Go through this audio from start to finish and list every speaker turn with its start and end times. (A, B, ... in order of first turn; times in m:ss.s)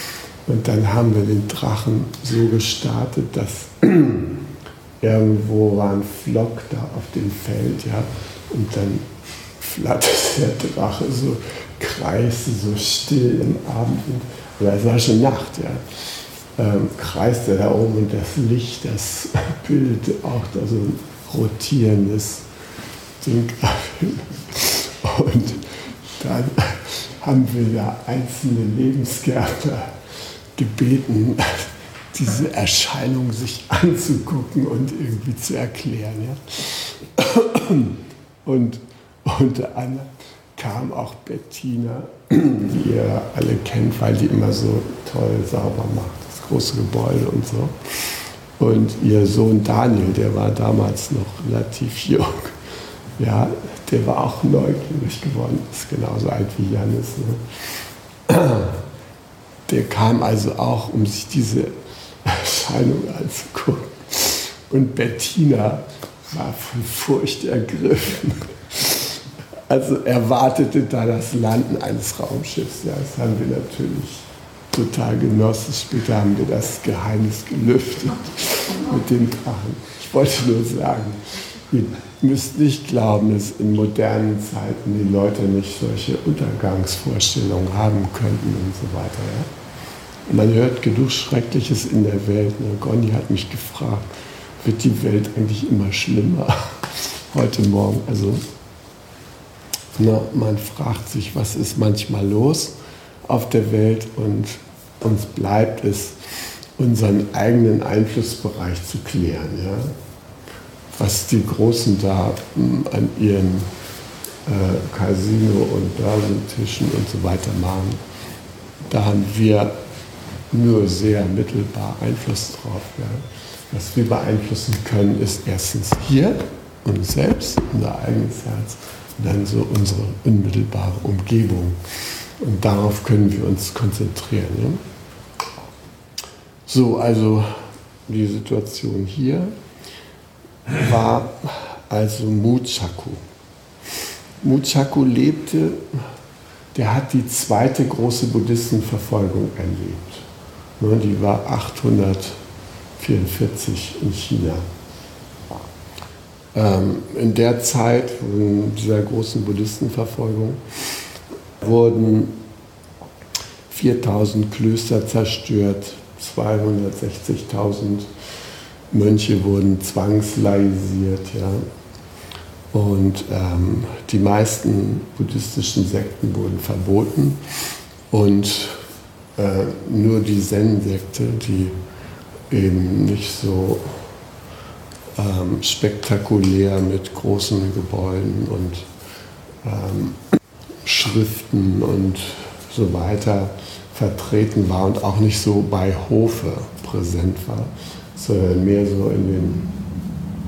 0:00.4-0:04.5 A
0:05.0-0:09.0 A
0:09.6-0:15.8 A
0:16.5-0:22.4 A
0:23.2-0:29.9 A
0:30.6-0:52.6 A
0:53.2-0:57.4 A
0:58.3-0:58.8 A
0:59.7-1:29.5 A
1:30.3-1:34.0 A
1:34.6-1:38.4 A
1:40.0-1:42.7 A
1:43.3-1:46.2 A
1:46.8-1:49.9 A
1:50.9-1:53.7 A
1:54.4-1:58.0 A
1:58.9-1:59.7 A
2:00.5-2:11.8 A
2:12.4-2:14.8 A
2:16.7-2:19.5 A
2:20.7-2:23.2 A
2:24.4-2:26.0 A
2:26.7-2:30.3 A
2:30.8-2:32.4 A
2:33.0-2:34.6 A
2:36.5-2:40.6 A
2:41.6-2:42.4 A
2:43.7-2:48.1 A
2:48.9-2:51.6 A
2:52.7-2:57.4 A
2:58.1-2:58.8 A
2:59.4-3:01.8 A
3:02.5-3:04.0 A
3:05.2-3:08.9 A
3:09.6-3:10.2 A
3:10.8-3:19.7 A